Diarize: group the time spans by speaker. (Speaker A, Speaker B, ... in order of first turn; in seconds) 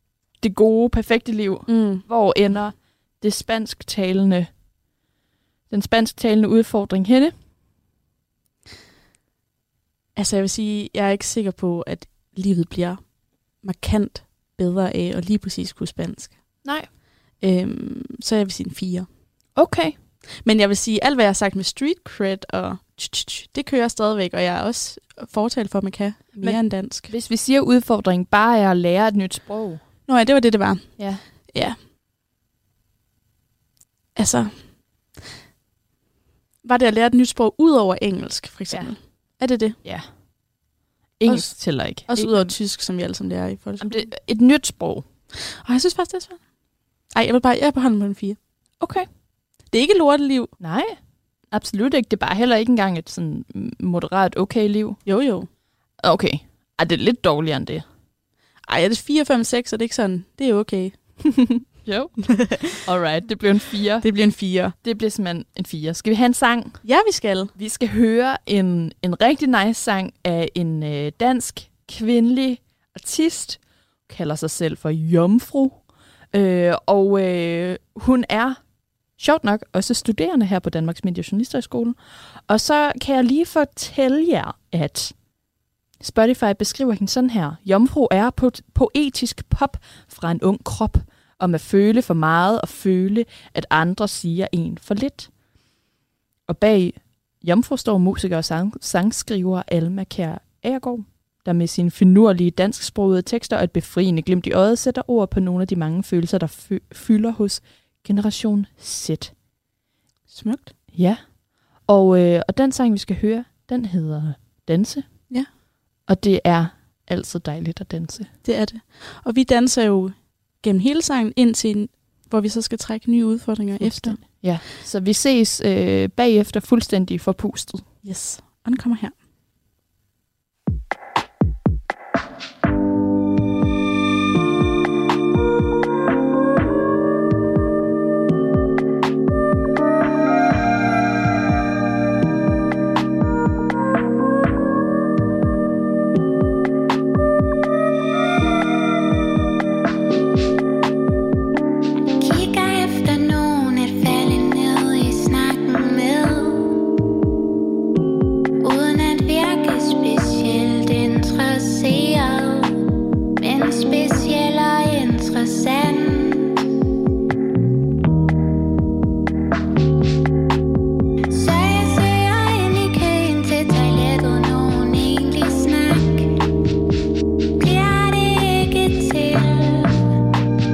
Speaker A: 0.4-4.5, 5.7-7.3, 19.5-19.9, 26.4-29.8, 31.0-31.2, 41.2-42.5, 43.8-45.0, 48.8-49.1, 50.6-51.0, 51.5-55.0, 56.0-57.8, 61.2-64.0, 64.8-66.8, 67.5-75.8, 76.3-78.6, 79.2-85.1, 86.0-95.3, 96.5-109.3, 110.9-111.2, 111.8-115.2, 116.1-118.3, 123.8-127.8
Speaker B: 1.7-2.0, 10.2-13.1, 13.6-16.4, 17.4-19.1, 20.4-27.1, 30.1-31.8, 34.1-34.5, 36.6-39.8, 41.2-44.1, 45.4-46.4, 47.1-48.4, 49.7-50.5, 55.0-55.5, 58.7-61.0, 62.3-62.7, 64.0-64.7, 66.8-67.5, 110.3-110.7, 118.4-124.2, 128.0-129.2
Speaker C: 152.2-156.7, 158.6-162.8, 163.4-166.6, 171.3-176.4, 177.6-180.1